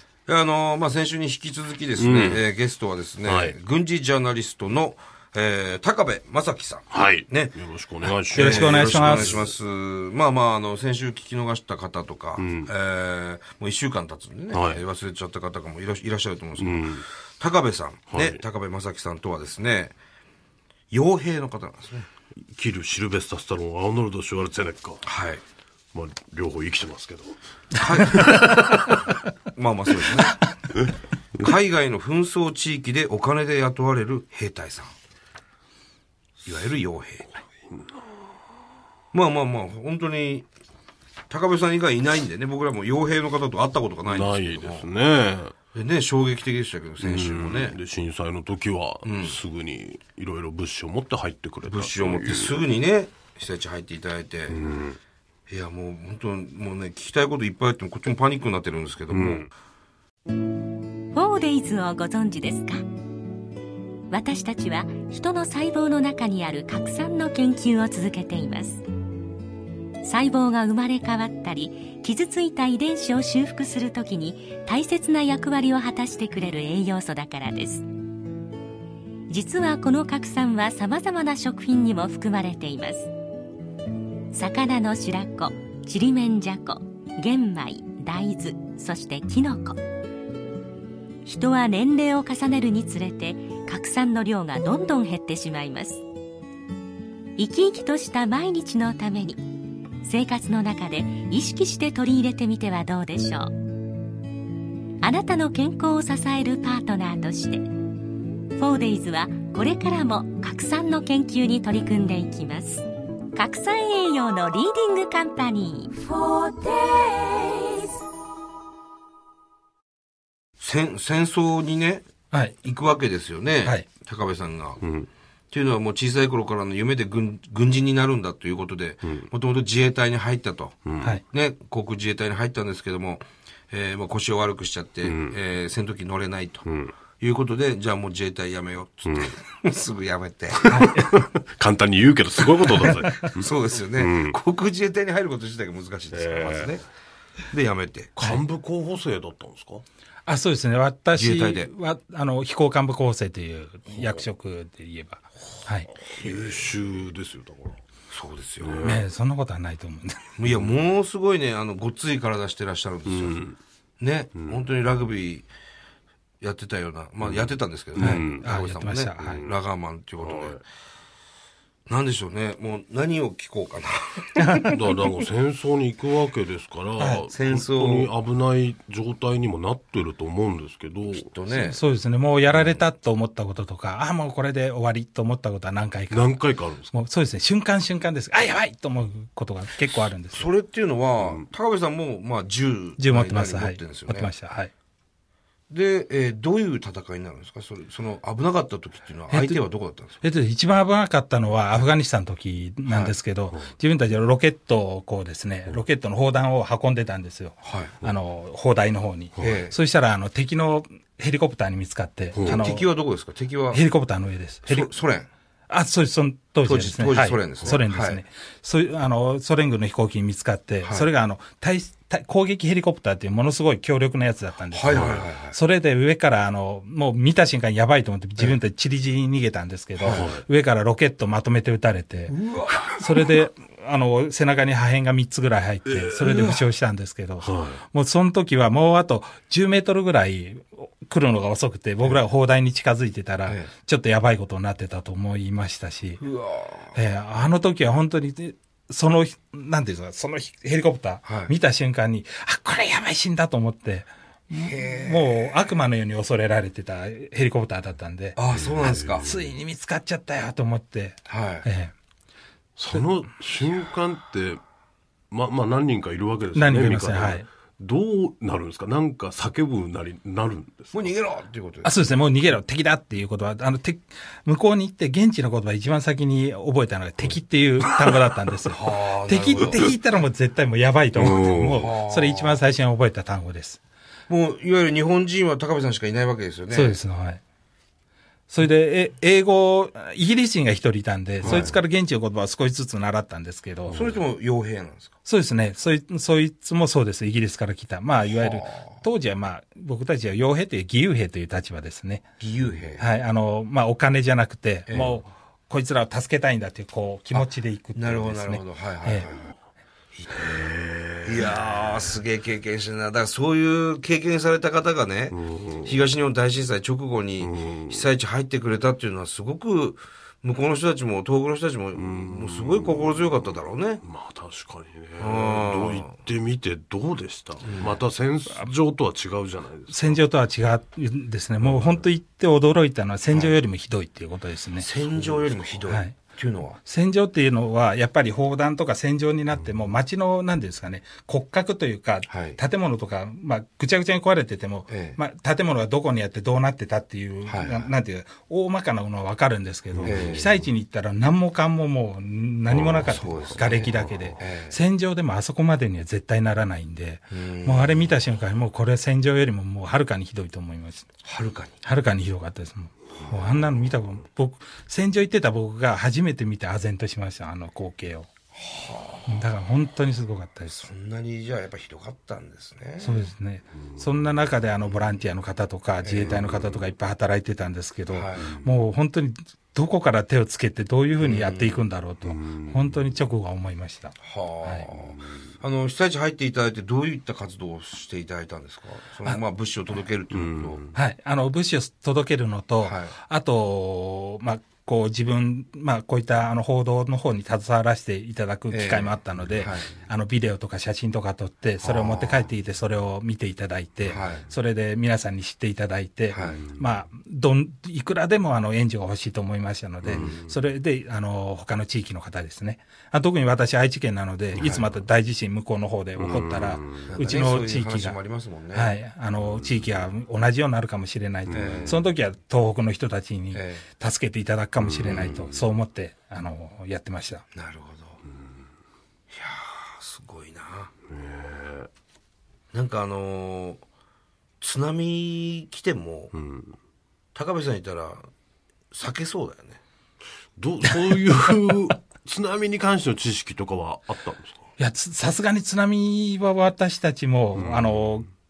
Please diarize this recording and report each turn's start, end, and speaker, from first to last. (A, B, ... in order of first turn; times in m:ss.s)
0:00.3-0:07.5 A
0:01.9-0:02.5 B
0:03.2-0:03.6 B
0:06.9-0:09.5 B
0:08.2-0:19.9 A
0:08.3-0:09.4 C
0:12.4-0:12.7 B
0:14.5-0:14.8 B
0:16.6-0:17.0 B
0:18.1-0:18.4 B
0:20.9-0:22.1 A
0:22.4-0:25.1 B
0:25.0-0:25.4 A
0:25.9-0:27.4 B
0:27.8-0:28.2 A
0:28.0-0:29.1 B
0:29.5-0:30.5 A
0:31.4-0:34.9 A
0:36.4-0:37.3 A
0:39.1-0:40.4 A
0:41.3-0:44.9 A
0:44.0-0:45.6 B
0:45.7-0:47.8 A
0:47.0-0:52.6 B
0:49.0-0:49.4 A
0:51.6-0:54.6 A
0:54.5-0:55.0 B
0:55.5-0:59.5 A
0:59.1-0:59.5 B
1:01.1-1:02.8 D
1:04.1-1:08.8 D
1:10.0-1:17.8 D
1:19.3-1:23.1 D
1:24.3-1:29.8 D
1:31.2-1:36.0 D
1:37.4-1:39.4 D
1:40.0-1:43.5 D
1:45.0-1:47.7 D
1:48.6-1:57.8 D
2:00.6-2:02.0 A
2:02.3-2:02.6 C
2:02.6-2:04.8 A
2:04.8-2:05.1 B
2:05.5-2:20.8 A
2:10.8-2:11.2 B
2:15.0-2:15.4 B
2:16.6-2:17.0 B
2:19.0-2:19.4 B
2:20.6-2:24.4 B
2:20.7-2:21.1 C
2:23.3-2:26.8 A
2:26.1-2:26.8 B
2:27.5-2:28.2 A
2:28.2-2:29.8 B
2:30.2-2:35.9 C
2:31.1-2:31.7 A
2:35.9-2:37.8 B
2:36.2-2:36.6 A
2:38.1-2:38.9 A
2:38.6-2:39.0 B
2:38.8-2:40.3 C
2:40.4-2:43.4 A
2:43.0-2:43.6 B
2:44.0-2:45.5 A
2:46.4-2:50.6 A
2:47.2-2:48.5 B
2:48.0-2:49.4 C
2:49.2-2:49.5 B
2:50.2-2:50.6 B
2:51.9-2:54.6 A
2:54.4-2:54.8 C
2:54.6-3:01.3 B
2:57.0-2:57.2 C
2:57.3-2:58.1 A
3:01.1-3:01.8 A
3:01.5-3:10.5 C
3:02.5-3:02.8 B
3:06.1-3:06.9 B
3:10.3-3:14.3 A
3:11.2-3:11.4 B
3:13.0-3:14.7 C
3:15.7-3:20.2 A
3:19.3-3:19.6 C
3:20.2-3:32.9 C
3:22.9-3:23.2 A
3:27.6-3:28.0 A
3:29.4-3:29.6 B
3:29.4-3:29.7 A
3:32.3-3:32.7 B
3:32.4-3:33.8 A
3:33.7-3:34.9 C
3:34.6-3:35.3 A
3:35.7-4:06.2 C
3:36.6-3:38.2 A
3:44.7-3:45.6 A
3:44.9-3:45.2 B
3:50.0-3:50.2 A
3:50.0-3:50.5 B
3:52.3-3:52.9 A
3:55.9-3:56.3 B
3:56.2-3:56.6 A
3:57.4-3:57.8 B
4:06.2-4:07.0 A
4:06.9-4:21.9 C
4:11.2-4:11.5 A
4:14.5-4:15.7 A
4:18.4-4:19.3 A
4:18.5-4:19.4 B
4:21.3-4:21.7 A
4:22.8-4:24.6 B
4:25.3-4:31.1 B
4:26.5-4:27.4 C
4:30.9-4:31.9 A
4:31.8-4:43.8 C
4:38.7-4:39.9 A
4:41.1-4:41.9 B
4:41.6-4:42.6 A
4:44.3-4:47.0 A
4:46.7-4:47.4 C
4:48.5-4:54.1 C
4:51.4-4:51.8 B
4:53.9-4:54.2 B
4:53.9-4:55.1 A
4:55.2-5:02.3 C
4:58.3-4:59.0 A
5:02.4-5:03.0 A
5:03.0-5:09.3 C
5:04.9-5:05.2 A
5:07.3-5:09.5 A
5:10.2-5:10.5 A
5:10.3-5:12.2 B
5:11.2-5:24.0 A
5:15.3-5:16.1 B
5:17.4-5:18.1 B
5:21.9-5:30.2 B
5:25.2-5:26.2 A
5:27.6-5:28.0 A
5:29.9-5:34.9 C
5:31.6-5:32.0 B
5:33.3-5:33.6 A
5:34.8-5:36.8 A
5:35.2-5:35.5 B
5:35.9-5:36.2 C
5:36.8-6:01.1 C
5:39.5-5:39.8 B
5:42.3-5:42.6 A
5:44.9-5:45.2 A
5:47.4-5:47.9 A
5:49.9-5:50.7 B
5:50.0-5:50.5 A
5:52.7-5:54.4 B
5:53.0-5:54.8 A
5:57.3-5:58.0 A
6:01.2-6:01.8 A
6:01.8-6:08.3 C
6:08.5-6:09.4 A
6:09.3-6:10.9 C
6:10.7-6:13.3 A
6:13.0-6:24.9 C
6:13.8-6:14.4 B
6:14.8-6:15.2 A
6:16.0-6:16.4 A
6:16.3-6:16.8 B
6:18.1-6:18.5 A
6:18.4-6:18.8 B
6:21.2-6:21.9 A
6:22.2-6:23.1 B
6:24.2-6:30.8 A
6:25.2-6:25.5 B
6:30.3-6:30.9 B
6:30.9-6:58.2 C
6:32.8-6:33.2 A
6:38.7-6:39.9 A
6:41.8-6:42.5 A
6:44.1-6:44.5 A
6:46.3-6:46.6 A
6:46.5-6:46.9 B
6:50.0-6:50.6 B
6:54.5-6:55.0 B
6:56.2-6:57.2 B
6:57.1-6:59.0 A
6:58.7-7:07.4 C
6:59.4-7:00.1 B
7:01.5-7:02.0 B
7:01.6-7:02.0 A
7:03.5-7:03.8 A
7:04.8-7:05.7 B
7:05.1-7:05.3 A
7:07.5-7:08.2 A
7:09.3-7:10.9 A
7:11.1-7:11.9 B
7:12.7-7:13.8 A
7:14.6-7:16.3 A
7:16.3-7:16.8 B
7:17.3-7:18.3 A
7:18.9-7:19.8 A
7:20.6-7:24.6 B
7:24.8-7:28.3 C
7:27.5-7:28.3 B